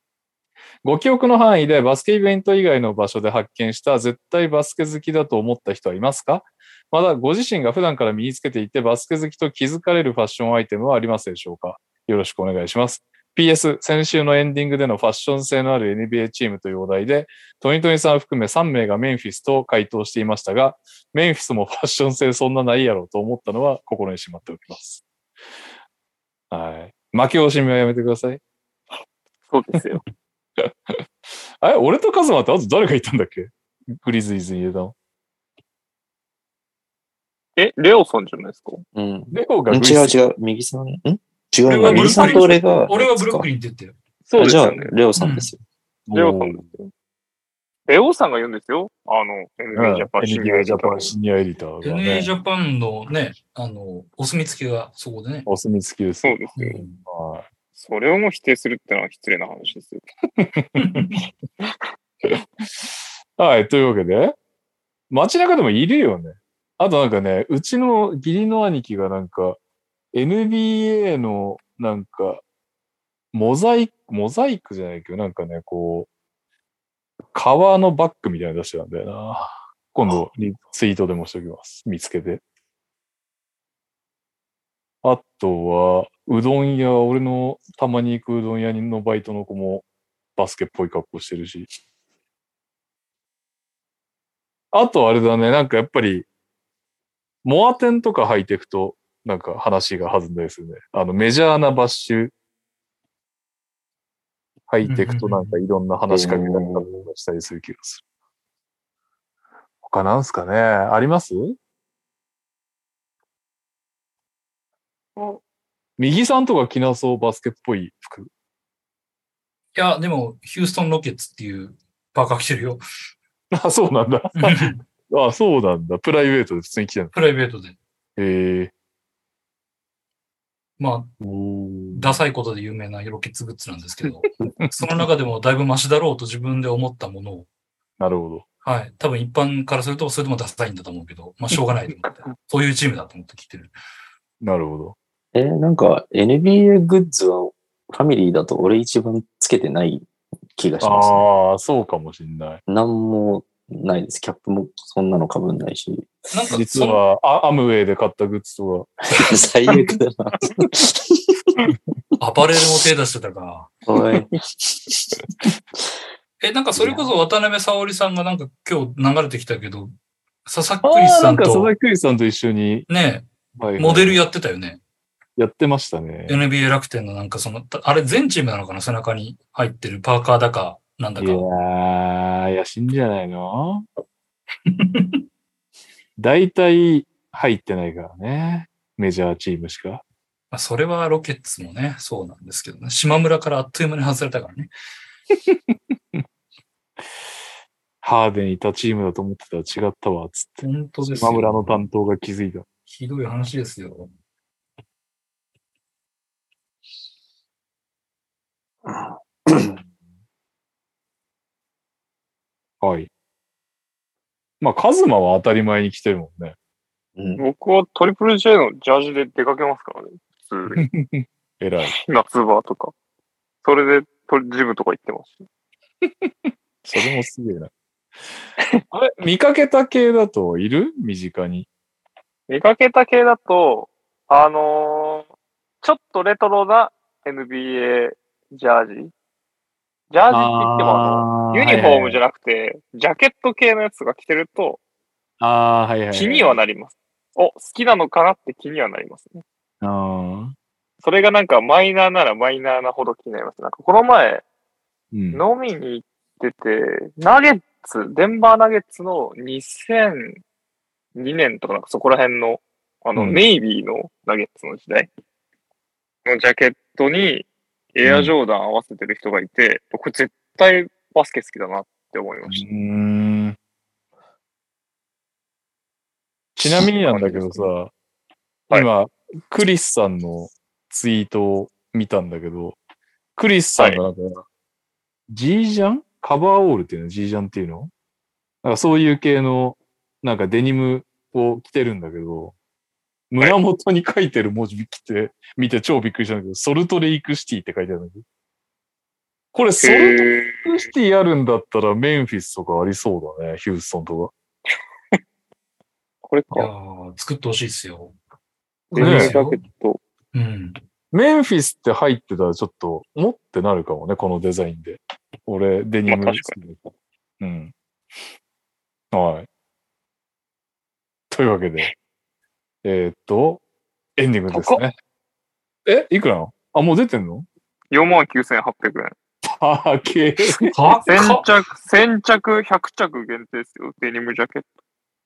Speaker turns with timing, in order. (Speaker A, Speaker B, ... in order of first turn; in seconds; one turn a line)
Speaker A: 0.8-25.0
Speaker A: 26.5-28.4
Speaker B: 29.5-30.0
Speaker A: 30.6-31.0
Speaker A: 31.6-34.9
Speaker B: 37.6-38.8
Speaker C: 38.9-43.5
Speaker A: 39.3-40.2
Speaker D: 41.6-43.9
Speaker B: 41.9-42.6
Speaker B: 44.3-44.9
Speaker C: 44.4-45.6
Speaker D: 45.1-45.5
Speaker A: 46.1-46.7
Speaker B: 46.1-46.9
Speaker B: 47.9-51.1
Speaker A: 49.7-52.3
Speaker D: 51.8-55.5
Speaker A: 55.5-56.4
Speaker B: 56.2-56.8
Speaker D: 56.6-57.0
Speaker A: 57.0-57.5
Speaker B: 57.8-60.0
Speaker A: 60.4-61.1
Speaker D: 60.8-61.2
Speaker A: 62.8-64.3
Speaker A: 65.1-69.6
Speaker A: 70.1-72.4
Speaker A: 73.3-76.1
Speaker A: 77.3-82.4
Speaker A: 85.0-91.7
Speaker A: 94.7-96.3
Speaker A: 97.4-102.3
Speaker A: 104.7-108.0
Speaker D: 104.8-105.6
Speaker C: 106.1-106.9
Speaker A: 109.8-111.6
Speaker A: 116.0-118.3
Speaker D: 119.7-122.8
Speaker A: 123.5-127.1
Speaker D: 124.3-124.8
Speaker D: 127.1-127.8
Speaker A: 128.2-128.7
Speaker D: 130.8-131.1
Speaker C: 131.2-132.2
Speaker D: 131.9-137.5
Speaker A: 138.0-138.4
Speaker D: 138.6-143.7
Speaker A: 144.4-144.9
Speaker C: 145.3-151.2
Speaker A: 150.8-152.6
Speaker C: 152.7-156.1
Speaker D: 156.3-157.0
Speaker A: 156.5-158.9
Speaker C: 159.1-161.7
Speaker D: 162.2-163.8
Speaker C: 163.8-165.2
Speaker D: 166.4-169.9
Speaker C: 166.8-167.1
Speaker D: 170.4-171.7
Speaker A: 170.8-172.9
Speaker D: 172.9-174.8
Speaker A: 173.6-174.2
Speaker A: 175.4-176.4
Speaker D: 176.3-181.5
Speaker A: 181.2-183.8
Speaker D: 184.7-185.2
Speaker A: 186.2-190.0
Speaker D: 190.5-194.7
Speaker A: 195.5-196.2
Speaker A: 198.0-202.7
Speaker D: 200.6-201.8
Speaker D: 202.9-204.1
Speaker C: 208.9-209.7
Speaker A: 212.8-213.1
Speaker A: 214.6-216.5
Speaker C: 217.2-217.4
Speaker B: 217.4-220.8
Speaker A: 220.7-221.9
Speaker B: 221.8-222.9
Speaker B: 223.6-225.4
Speaker A: 226.0-227.7
Speaker A: 228.9-231.7
Speaker B: 232.5-235.3
Speaker B: 235.8-239.1
Speaker B: 240.1-244.8
Speaker A: 240.3-242.2
Speaker A: 245.4-246.6
Speaker B: 246.1-249.4
Speaker A: 249.8-250.5
Speaker B: 251.0-254.4
Speaker A: 255.1-255.4
Speaker B: 255.3-260.4
Speaker B: 261.1-265.1
Speaker A: 263.1-263.4
Speaker B: 266.2-272.6
Speaker A: 268.0-268.4
Speaker A: 272.4-273.6
Speaker A: 276.6-277.9
Speaker B: 277.1-277.7
Speaker A: 278.7-282.8
Speaker A: 283.4-284.4
Speaker A: 285.3-287.9
Speaker A: 288.6-292.5
Speaker A: 293.3-298.2
Speaker A: 299.5-304.3
Speaker B: 299.8-300.8
Speaker B: 306.2-306.7
Speaker D: 306.5-308.1
Speaker D: 308.9-309.6
Speaker B: 308.9-310.0
Speaker A: 309.0-309.3
Speaker D: 310.3-310.8
Speaker A: 311.1-316.9
Speaker B: 316.1-316.6
Speaker A: 317.4-317.7
Speaker A: 319.1-319.5
Speaker A: 321.3-321.9
Speaker A: 322.8-323.6
Speaker A: 324.2-324.9
Speaker B: 324.5-324.8
Speaker A: 325.9-327.5
Speaker B: 327.9-329.1
Speaker A: 329.4-330.7
Speaker D: 330.7-331.4
Speaker B: 331.1-334.6